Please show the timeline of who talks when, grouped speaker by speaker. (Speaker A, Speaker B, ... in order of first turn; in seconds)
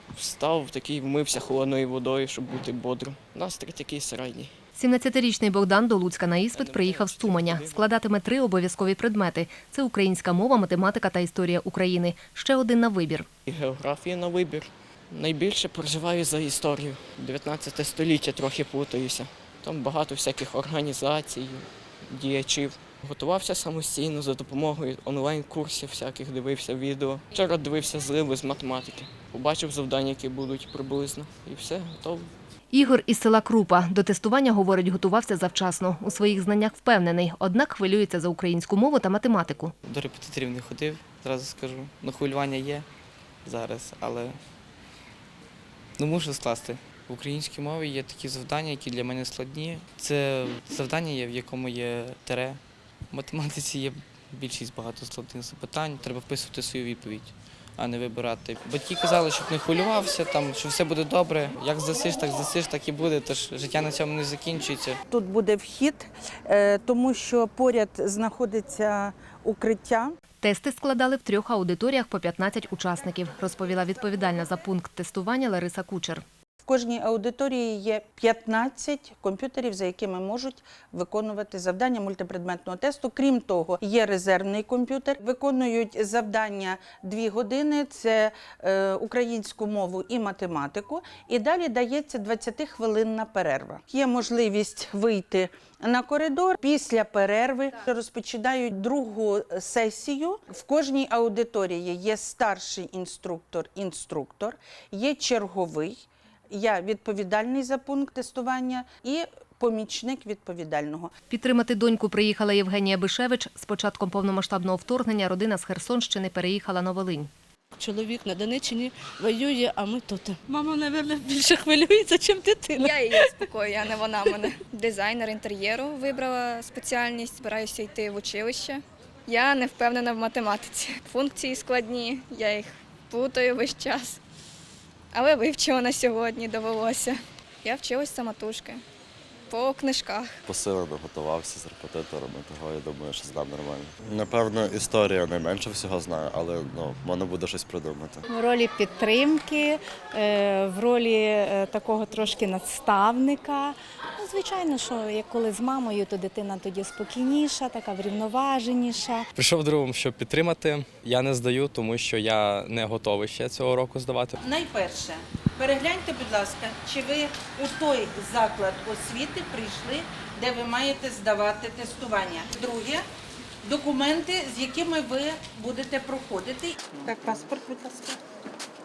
Speaker A: 0.1-4.5, 6.6-7.5, 13.4-32.3
Speaker B: 4.8-13.3, 32.7-39.7, 70.4-76.2, 111.3-117.3
Speaker C: 39.8-42.9, 43.4-44.4, 46.0-52.6, 53.1-65.0
Speaker D: 65.1-70.2, 76.6-106.0, 106.5-111.1, 164.4-173.0, 173.6-178.2
Speaker E: 117.8-123.3
Speaker F: 122.8-134.2, 135.1-138.8, 139.5-140.3
Speaker G: 140.4-148.2
Speaker H: 148.3-159.2
Speaker I: 159.3-164.3